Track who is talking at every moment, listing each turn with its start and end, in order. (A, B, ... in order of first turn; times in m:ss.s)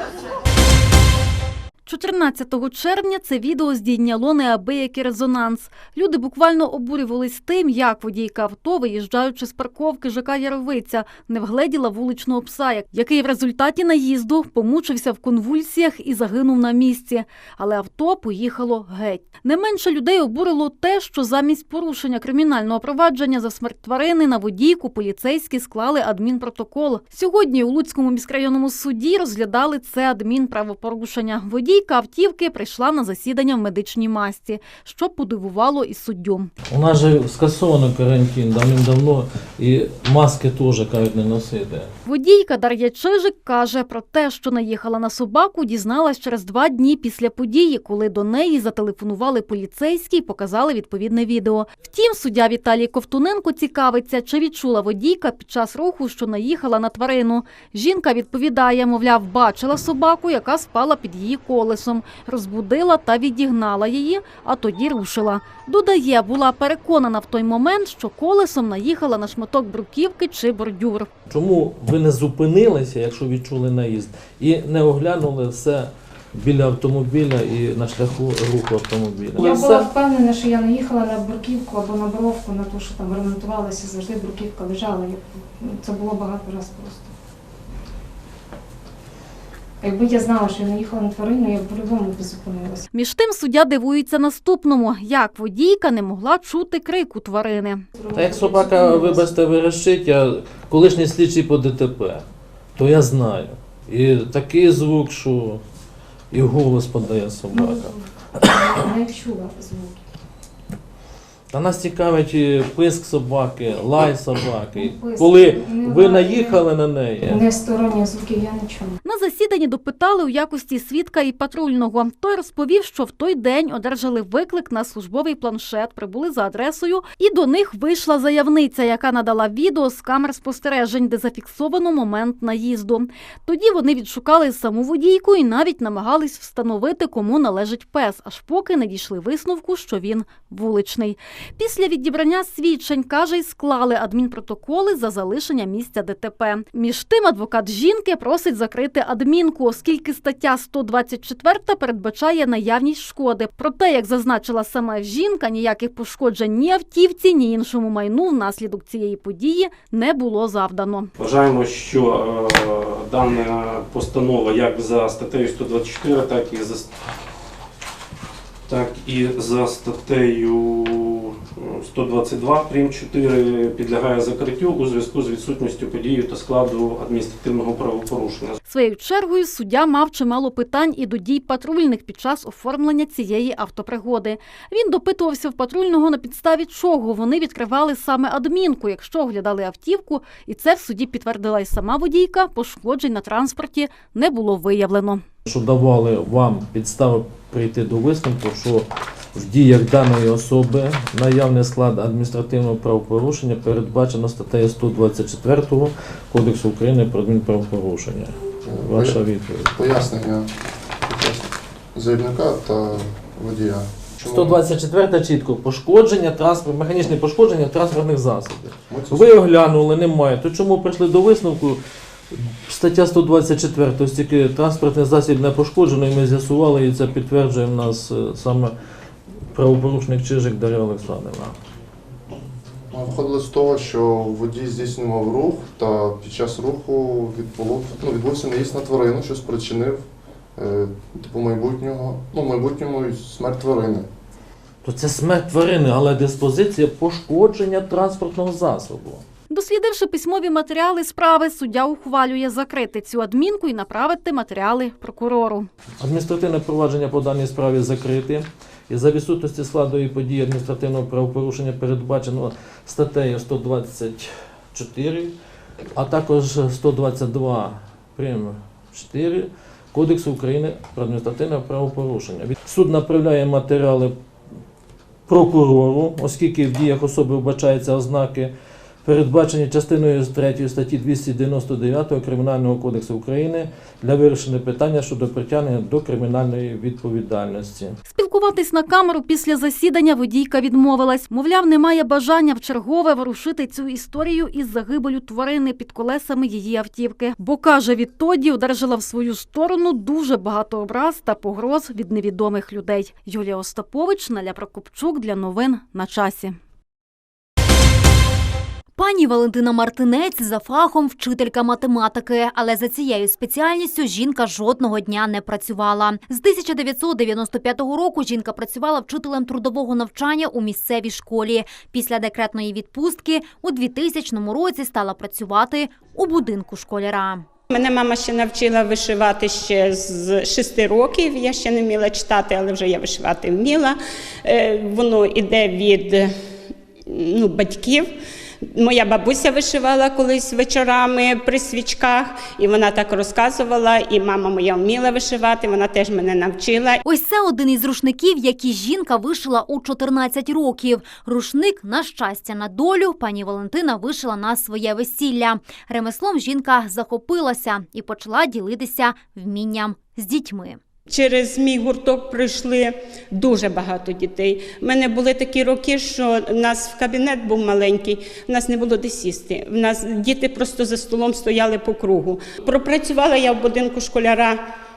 0:01.9-0:36.5 A
0:36.7-0:41.9 B
0:42.1-1:11.1 A
1:11.3-1:19.9 B
1:19.4-1:27.1 C
1:29.8-1:32.9 C
1:32.9-1:37.8 A
1:38.0-1:39.3 C
1:38.2-1:42.2 B
1:42.8-1:45.6 B
1:46.3-1:48.8 B
1:47.5-1:50.0 C
1:51.5-1:57.4 B
1:54.7-1:56.6 C
1:57.2-1:59.0 C
1:59.0-2:41.1 A
2:41.2-2:46.9 D
2:48.7-2:58.6 D
2:58.6-3:15.2 A
3:15.4-3:30.0 B
3:28.7-3:30.5 E
3:31.0-3:34.6 E
3:34.2-3:41.8 B
3:38.9-3:39.4 E
3:42.3-3:48.7 B
3:49.5-3:51.6 B
3:52.9-4:04.1 E
4:04.8-4:09.2 B
4:09.5-4:15.7 A
4:16.0-4:25.3 B
4:26.0-4:34.2 B
4:35.3-4:38.5 B
4:39.0-4:48.0 B
4:48.1-5:06.6 A
5:09.0-5:27.5 F
5:27.7-5:36.3 G
5:37.1-5:38.1 G
5:38.6-5:47.0 G
5:47.0-6:00.8 F
6:01.1-6:14.6 G